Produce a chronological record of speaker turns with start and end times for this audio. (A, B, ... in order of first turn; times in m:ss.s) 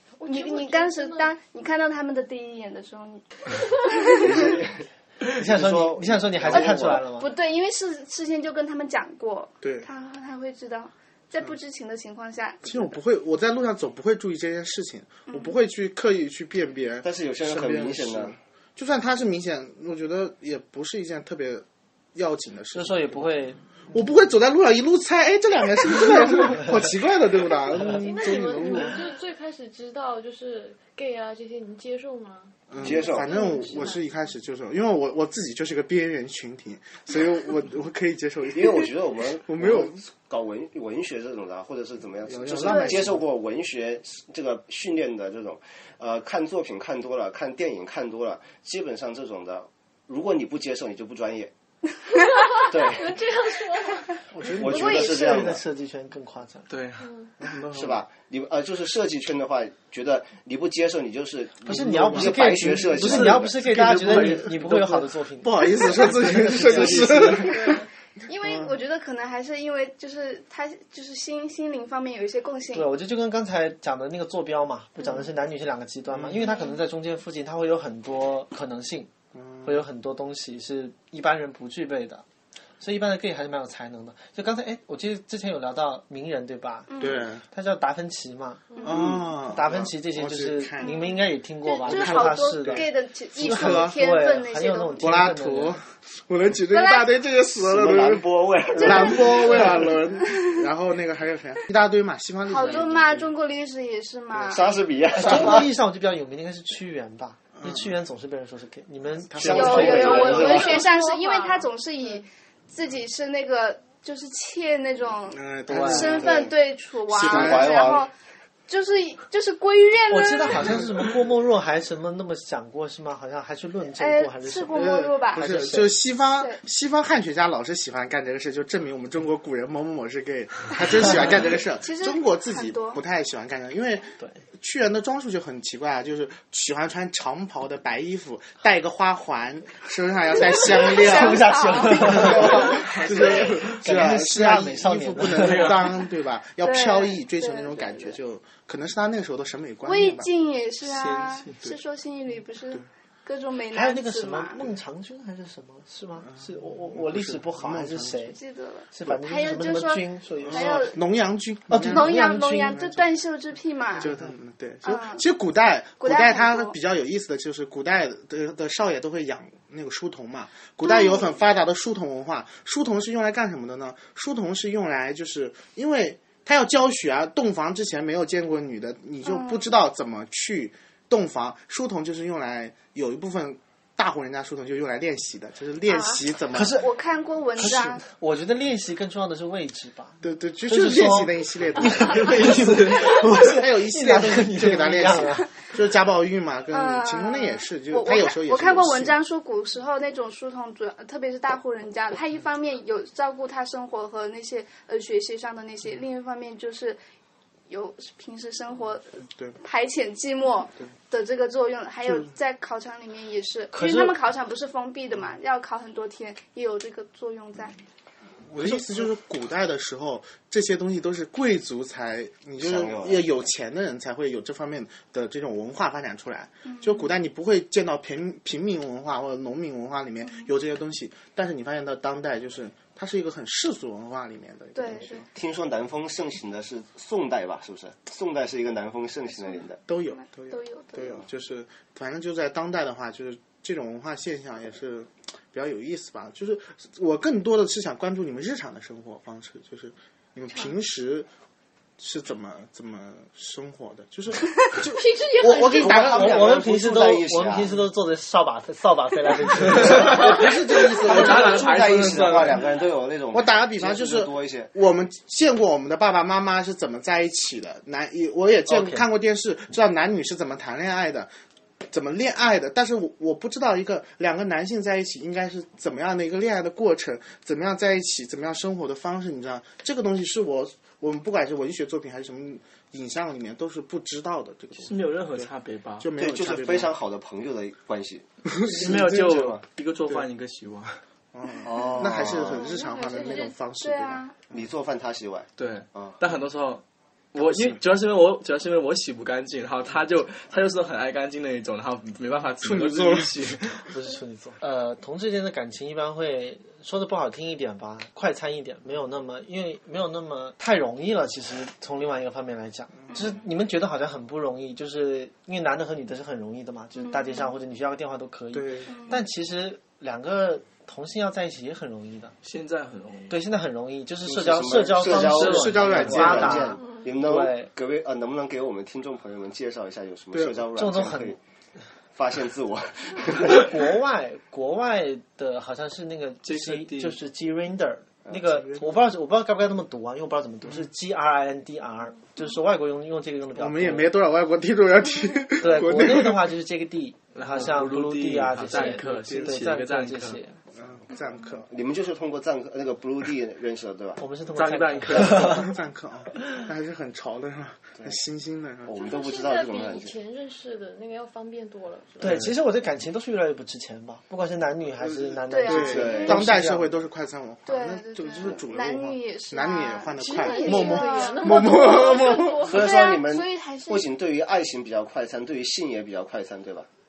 0:00.2-0:01.3 A
0:00.2-0:04.6 B
0:04.1-0:07.0 C
0:05.4-0:07.3 D
0:06.5-0:13.0 B
0:09.6-0:09.9 E
0:12.6-0:23.3 E
0:15.3-0:15.6 B
0:17.0-0:18.4 C
0:22.7-0:23.6 D
0:23.9-0:29.0 E
0:28.0-0:34.0 A
0:32.7-0:40.0 E
0:32.8-0:33.4 C
0:38.5-0:51.5 C
0:42.2-0:43.2 E
0:42.6-0:43.0 B
0:42.8-0:43.1 D
0:52.4-0:54.1 A
0:52.7-0:53.2 C
0:54.3-0:54.8 E
0:54.5-0:55.6 C
0:54.6-0:56.7 D
0:54.6-0:55.5 B
0:56.7-0:57.1 F
0:57.0-0:57.3 A
0:57.4-0:58.0 E
0:57.7-1:03.6 C
1:01.6-1:07.5 D
1:01.7-1:03.2 E
1:02.9-1:05.1 F
1:03.9-1:04.5 E
1:05.4-1:07.8 E
1:05.8-1:07.5 F
1:07.4-1:07.8 A
1:08.2-1:12.9 B
1:08.4-1:08.7 E
1:12.7-1:19.1 D
1:16.1-1:16.5 E
1:19.3-1:19.8 E
1:19.6-1:22.2 D
1:22.8-1:32.9 D
1:26.9-1:27.3 B
1:27.0-1:27.4 E
1:28.8-1:29.2 B
1:28.8-1:31.0 E
1:30.8-1:35.2 B
1:31.8-1:34.0 E
1:33.4-1:35.8 D
1:35.0-1:43.3 E
1:36.7-1:37.1 B
1:37.6-1:39.9 C
1:38.8-1:40.7 B
1:42.5-1:44.8 B
1:44.3-1:45.7 C
1:45.1-1:50.6 D
1:47.5-1:47.9 E
1:49.3-1:50.5 E
1:49.4-1:50.9 C
1:49.5-1:58.1 B
1:49.8-1:51.7 A
1:55.3-1:56.5 E
1:55.7-1:56.2 D
1:56.0-1:56.5 C
1:57.1-1:58.0 E
1:57.2-1:58.1 C
1:58.7-2:00.8 B
2:00.1-2:05.9 D
2:04.0-2:05.5 B
2:04.7-2:30.3 E
2:10.8-2:13.0 B
2:20.5-2:23.5 B
2:20.8-2:25.9 D
2:22.7-2:23.8 F
2:25.2-2:26.0 F
2:26.6-2:28.2 B
2:29.8-2:34.6 B
2:30.8-2:31.6 F
2:33.7-2:38.4 D
2:36.2-2:38.3 E
2:38.3-2:41.0 B
2:38.9-2:40.9 D
2:40.4-2:43.0 E
2:41.7-2:42.8 D
2:41.8-2:44.1 B
2:43.9-3:06.8 E
2:44.0-2:44.3 D
2:44.8-2:45.3 B
2:46.0-2:46.7 B
2:50.8-2:51.4 B
2:59.2-2:59.7 B
3:05.9-3:08.0 B
3:06.5-3:06.9 D
3:07.6-3:15.6 D
3:10.2-3:19.2 E
3:16.7-3:27.0 B
3:27.7-3:37.7 B
3:32.0-3:32.3 E
3:33.7-3:34.2 D
3:38.4-3:55.3 E
3:38.6-3:39.1 D
3:42.6-3:43.3 C
3:46.6-3:47.1 B
3:50.2-3:50.5 B
3:54.7-3:55.2 B
3:55.3-3:59.8 C
3:59.9-4:11.3 E
4:00.1-4:01.1 B
4:12.0-4:16.6 E
4:14.9-4:16.1 A
4:15.6-4:17.8 C
4:15.8-4:20.3 D
4:19.8-4:22.6 F
4:19.8-4:24.7 C
4:20.0-4:22.3 E
4:23.3-4:31.3 E
4:28.7-4:29.0 D
4:31.9-4:47.0 E
4:44.8-4:46.1 F
4:46.2-4:49.6 C
4:48.4-4:49.4 E
4:48.7-4:51.0 F
4:51.3-4:54.6 E
4:51.6-4:52.6 C
4:52.5-4:53.6 A
4:52.6-4:54.4 B
4:54.5-4:56.2 C
4:55.6-5:03.9 F
4:57.4-4:57.8 E
5:02.6-5:03.4 E
5:03.9-5:22.4 D
5:13.0-5:13.3 E
5:13.1-5:13.4 B
5:17.0-5:17.5 B
5:18.5-5:18.9 E
5:18.9-5:19.2 B
5:22.4-5:23.4 F
5:23.3-5:27.7 D
5:24.2-5:31.4 C
5:25.1-5:26.7 E
5:25.2-5:26.6 F
5:30.3-5:30.6 E
5:30.7-5:31.4 D
5:32.1-5:33.7 C
5:33.3-5:44.1 D
5:36.4-5:37.2 F
5:38.5-5:38.9 E
5:43.5-5:46.5 E
5:45.6-5:50.6 D
5:47.3-5:50.4 F
5:48.8-5:49.6 E
5:50.7-5:51.7 E
5:51.7-5:54.2 C
5:54.2-5:55.7 D
5:54.5-5:55.7 F
5:55.2-5:59.0 E
5:58.8-6:00.2 C
5:59.0-6:02.3 A
6:02.2-6:06.9 D
6:02.2-6:02.5 F
6:05.0-6:12.7 E
6:05.5-6:06.4 B
6:05.8-6:06.4 C
6:07.7-6:14.1 B
6:10.2-6:13.0 A
6:12.6-6:16.9 C